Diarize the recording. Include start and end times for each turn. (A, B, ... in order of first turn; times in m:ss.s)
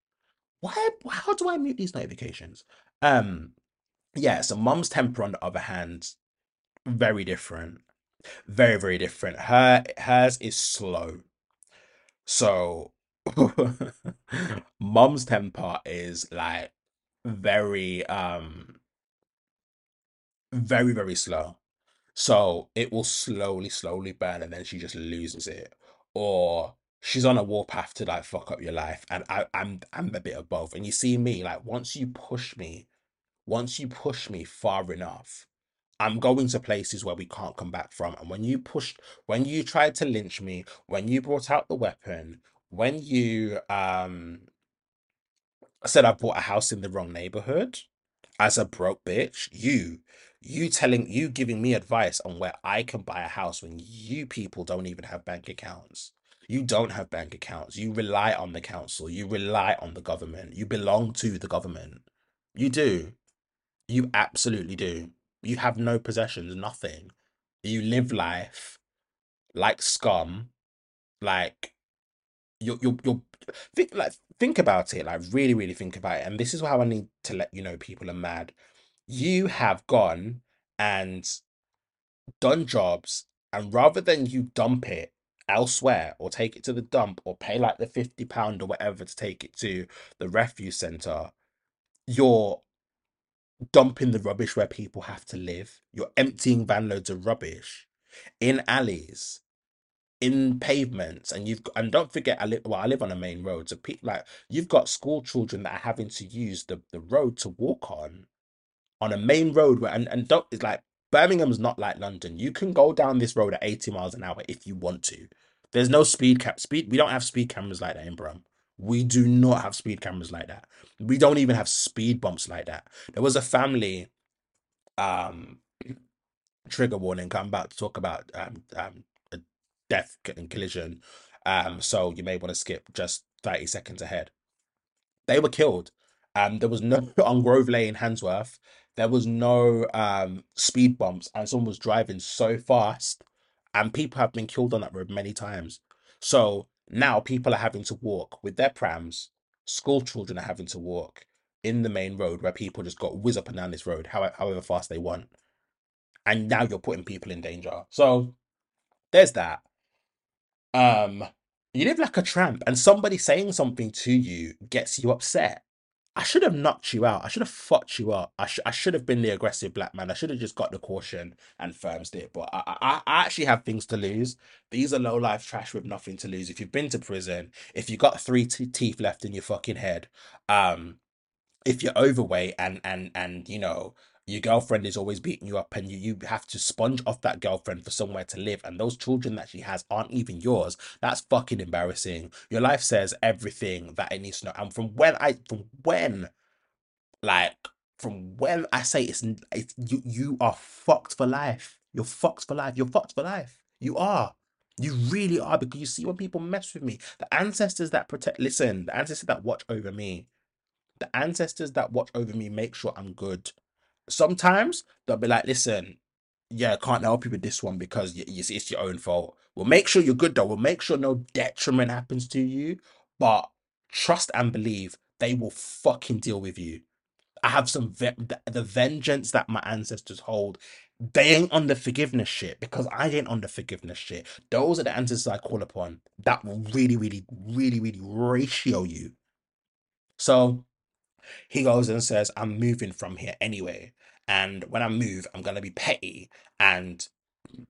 0:00.6-0:03.5 A
0:04.2-0:06.2 A
0:06.9-0:07.8 A
0:08.5-0:11.2 A
0:12.3-0:16.7 A
0:17.2-0:18.8 A
0:20.5-0:21.6 A
0:22.2-0:32.9 A
0:33.5-0:35.5 A
0:36.0-0:44.5 A
0:45.8-0:47.9 A
0:48.4-1:03.2 A
1:03.9-1:08.8 A
1:09.6-1:10.5 A
1:11.2-1:11.7 A
1:12.6-1:18.6 A
1:19.1-1:21.4 A
1:22.4-1:31.3 A
1:32.1-1:32.6 A
1:33.7-1:37.9 A
1:38.4-1:39.4 A
1:40.2-1:48.3 A
1:49.0-2:04.1 A
2:05.0-2:05.6 A
2:06.7-2:14.3 A
2:15.3-2:23.2 A
2:23.8-2:35.3 A
2:36.3-2:38.4 A
2:39.1-2:39.6 A
2:40.8-2:45.6 A
2:46.2-3:01.0 A
3:01.7-3:16.3 A
3:17.2-3:30.3 A
3:31.0-3:33.5 A
3:34.1-3:36.0 A
3:36.5-3:46.8 A
3:47.4-3:50.6 A
3:51.1-3:59.2 A
4:00.2-4:00.7 A
4:01.5-4:07.1 A